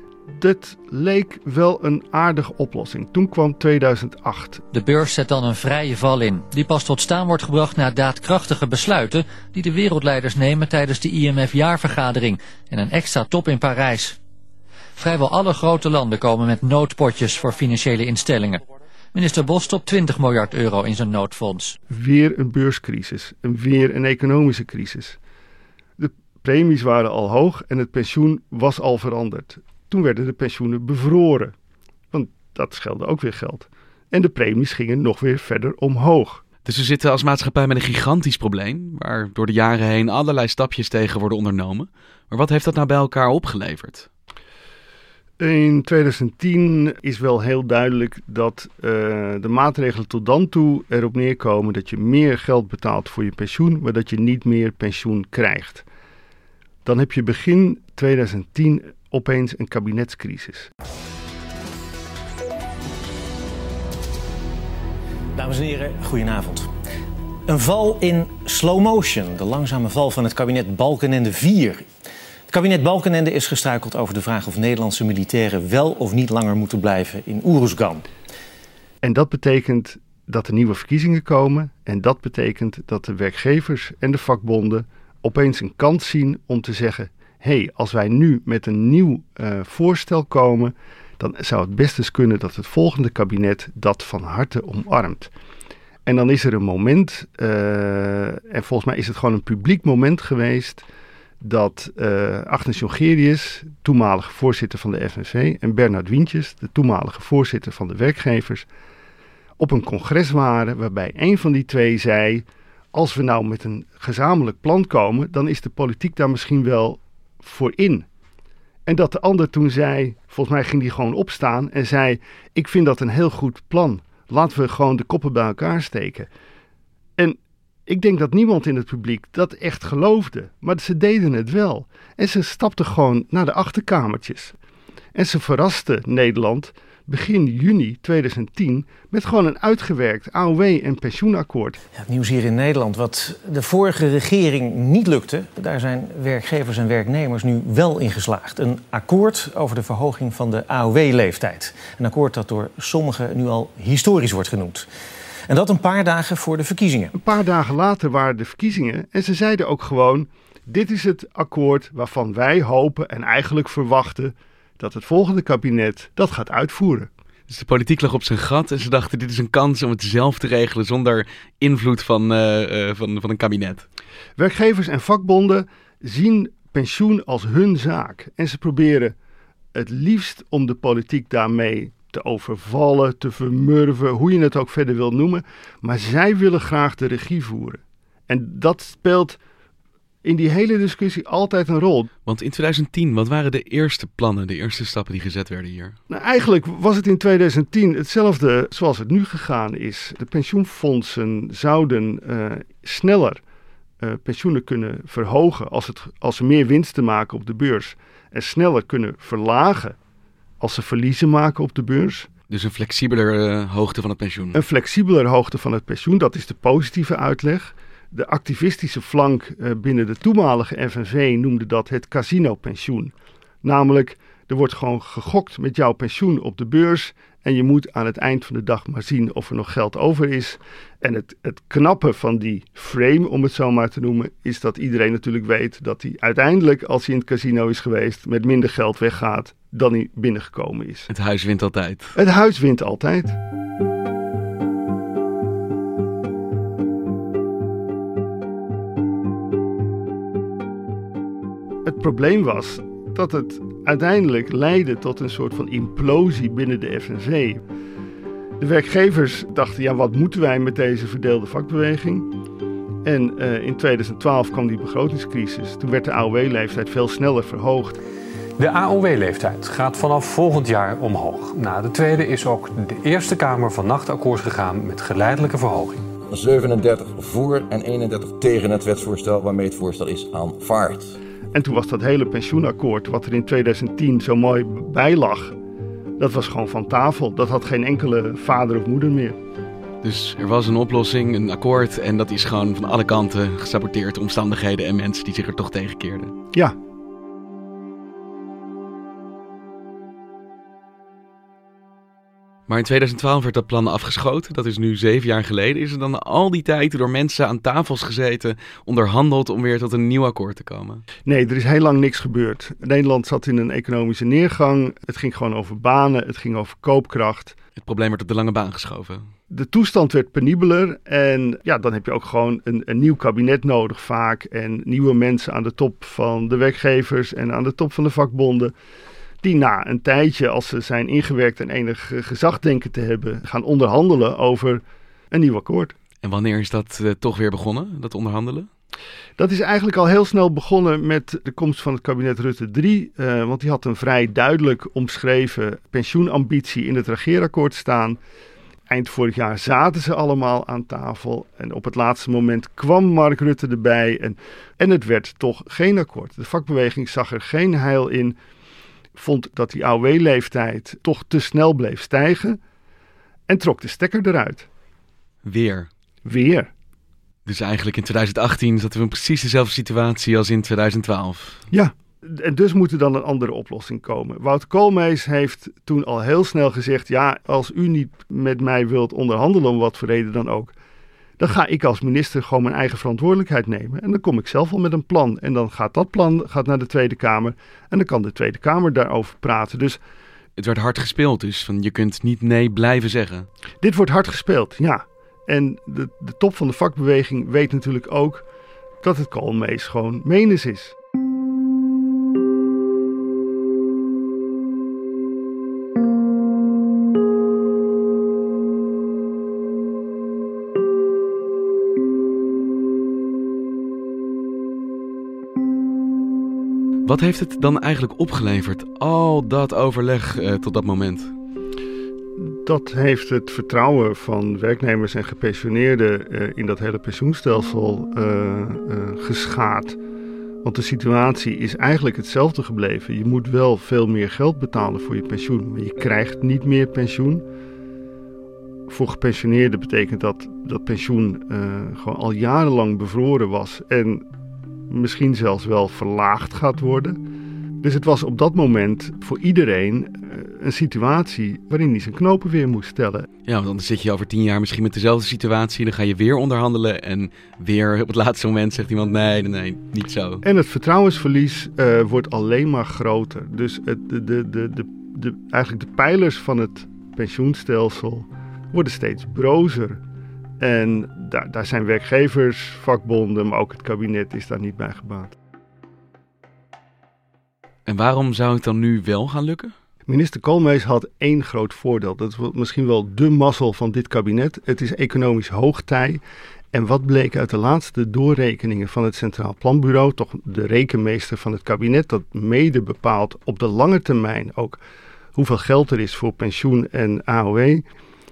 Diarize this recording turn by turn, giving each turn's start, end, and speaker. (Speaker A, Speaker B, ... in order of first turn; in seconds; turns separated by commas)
Speaker A: 0.3-4.6, Speaker B: 4.7-14.2, Speaker B: 15.0-18.6, Speaker B: 19.1-21.8, Speaker A: 21.9-25.2, Speaker A: 26.0-31.5, Speaker A: 32.1-36.4, Speaker C: 36.6-44.1, Speaker A: 45.4-55.9, Speaker A: 56.9-60.7, Speaker D: 65.4-66.7, Speaker D: 67.5-71.8, Speaker D: 72.5-78.0, Speaker A: 79.0-95.3, Speaker A: 96.1-100.9, Speaker A: 101.4-108.7, Speaker A: 109.6-118.1, Speaker A: 118.8-126.3, Speaker A: 127.2-134.6, Speaker A: 135.2-141.8, Speaker D: 142.0-154.9, Speaker D: 155.5-157.1, Speaker A: 157.1-167.1, Speaker C: 167.5-173.8, Speaker A: 174.4-179.1, Speaker A: 179.7-189.4, Speaker A: 190.2-192.1, Speaker C: 192.3-195.9, Speaker A: 196.1-203.4, Speaker A: 204.0-210.0, Speaker A: 210.6-212.3, Speaker C: 212.5-214.6, Speaker A: 214.5-241.1, Speaker C: 241.1-242.1, Speaker A: 242.2-243.4, Speaker A: 251.8-257.6, Speaker A: 258.6-262.3, Speaker A: 263.0-268.0, Speaker E: 268.6-276.0, Speaker F: 276.3-281.1, Speaker A: 281.5-285.6, Speaker A: 286.2-289.4, Speaker C: 290.0-296.3, Speaker C: 302.7-311.0, Speaker A: 311.3-317.6, Speaker C: 317.8-319.2, Speaker A: 319.5-328.7, Speaker A: 329.4-335.9, Speaker C: 336.2-338.7, Speaker A: 339.4-348.2, Speaker A: 348.9-358.4, Speaker A: 359.1-362.6, Speaker A: 363.5-364.7, Speaker C: 365.4-365.9, Speaker A: 366.2-366.7, Speaker C: 367.5-371.6, Speaker A: 371.7-380.7, Speaker A: 381.4-390.0, Speaker C: 390.6-393.5, Speaker A: 393.8-398.5, Speaker A: 399.0-401.0, Speaker C: 417.1-421.3, Speaker A: 422.4-430.0, Speaker A: 430.6-437.4, Speaker A: 438.9-444.3, Speaker A: 444.9-447.2, Speaker A: 447.8-453.3, Speaker C: 453.5-460.4, Speaker A: 460.4-470.0, Speaker A: 470.6-475.4, Speaker C: 477.9-479.7, Speaker A: 480.1-494.8, Speaker A: 495.4-497.8